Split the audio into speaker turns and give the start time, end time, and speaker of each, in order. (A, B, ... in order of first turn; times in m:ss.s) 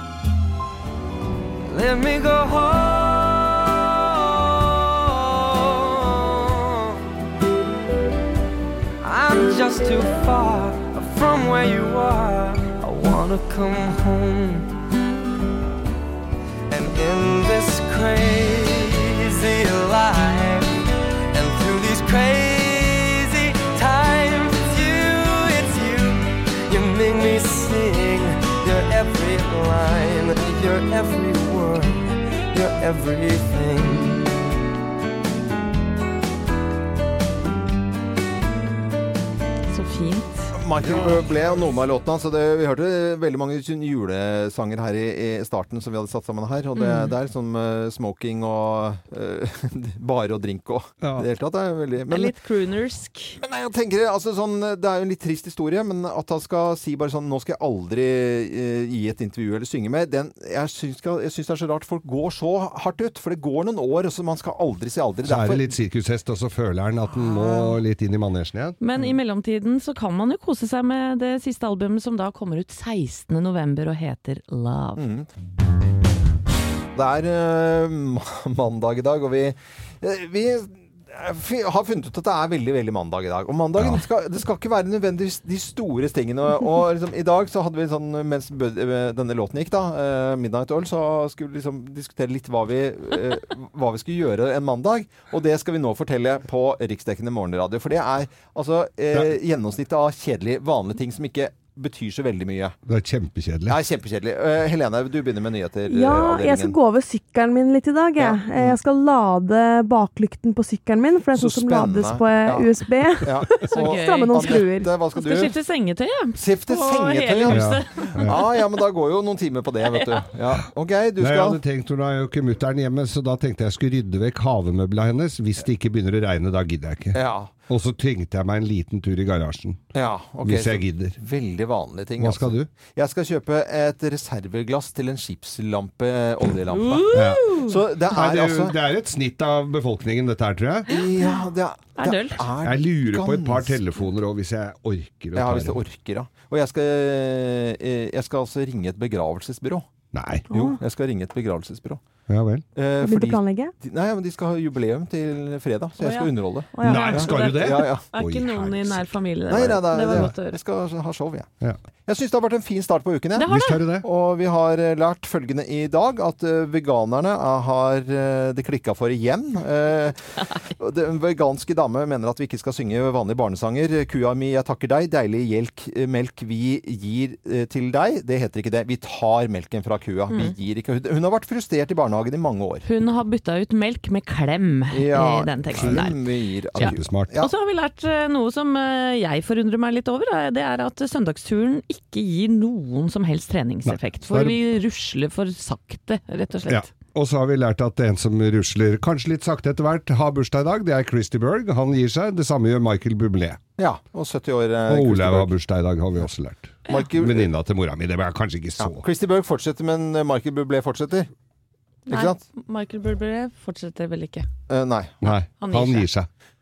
0:01.7-0:06.8 A
0:09.0-0:14.7 A
0:16.7-0:20.7 A
0:21.3-0:34.4 A
0:39.7-0:40.5 B
0:40.5-0:52.3 C
0:40.8-0:41.2 D
0:46.8-0:47.2 B
0:51.0-0:51.3 D
0:52.1-0:53.4 B
0:53.4-1:05.7 C
1:05.2-1:08.8 D
1:07.1-1:07.7 C
1:08.8-1:15.0 B
1:15.0-1:15.3 C
1:17.0-1:42.8 C
1:23.8-1:24.0 D
1:42.9-1:43.8 D
1:43.7-1:46.8 C
1:45.9-1:54.9 E
1:48.2-1:48.8 C
1:51.3-1:55.6 C
1:53.7-1:54.6 B
1:55.2-1:58.5 B
1:56.4-2:01.6 C
1:57.5-1:58.4 D
1:59.9-2:00.3 B
2:01.2-2:09.8 D
2:07.1-2:07.5 C
2:09.9-2:18.8 C
2:10.4-2:11.2 D
2:12.2-2:12.7 D
2:16.7-2:17.8 B
2:17.1-2:17.6 D
2:18.1-2:20.9 D
2:20.9-2:23.8 C
2:21.2-2:21.4 B
2:22.0-2:22.4 B
2:22.6-2:25.8 D
2:25.4-2:29.9 C
2:30.1-2:30.5 D
2:30.5-2:30.8 E
2:30.5-2:32.0 C
2:32.3-2:32.6 D
2:32.8-2:38.0 C
2:33.0-2:33.7 E
2:36.0-2:36.3 B
2:36.8-2:37.2 E
2:36.8-2:39.1 D
2:36.9-2:40.6 B
2:39.5-2:41.5 C
2:40.0-2:40.3 D
2:42.1-3:02.8 C
2:43.4-2:43.9 B
2:43.5-2:44.1 D
3:00.3-3:00.6 B
3:02.8-3:06.2 B
3:04.9-3:07.5 C
3:05.7-3:06.0 D
3:06.8-3:16.9 B
3:06.8-3:07.3 D
3:13.9-3:14.6 D
3:16.7-3:23.6 D
3:23.8-3:25.6 C
3:24.9-3:29.0 D
3:26.9-3:27.5 C
3:28.8-3:31.3 C
3:32.1-3:34.5 B
3:32.1-3:32.4 C
3:34.7-3:35.4 C
3:35.2-3:36.3 D
3:35.6-3:36.1 B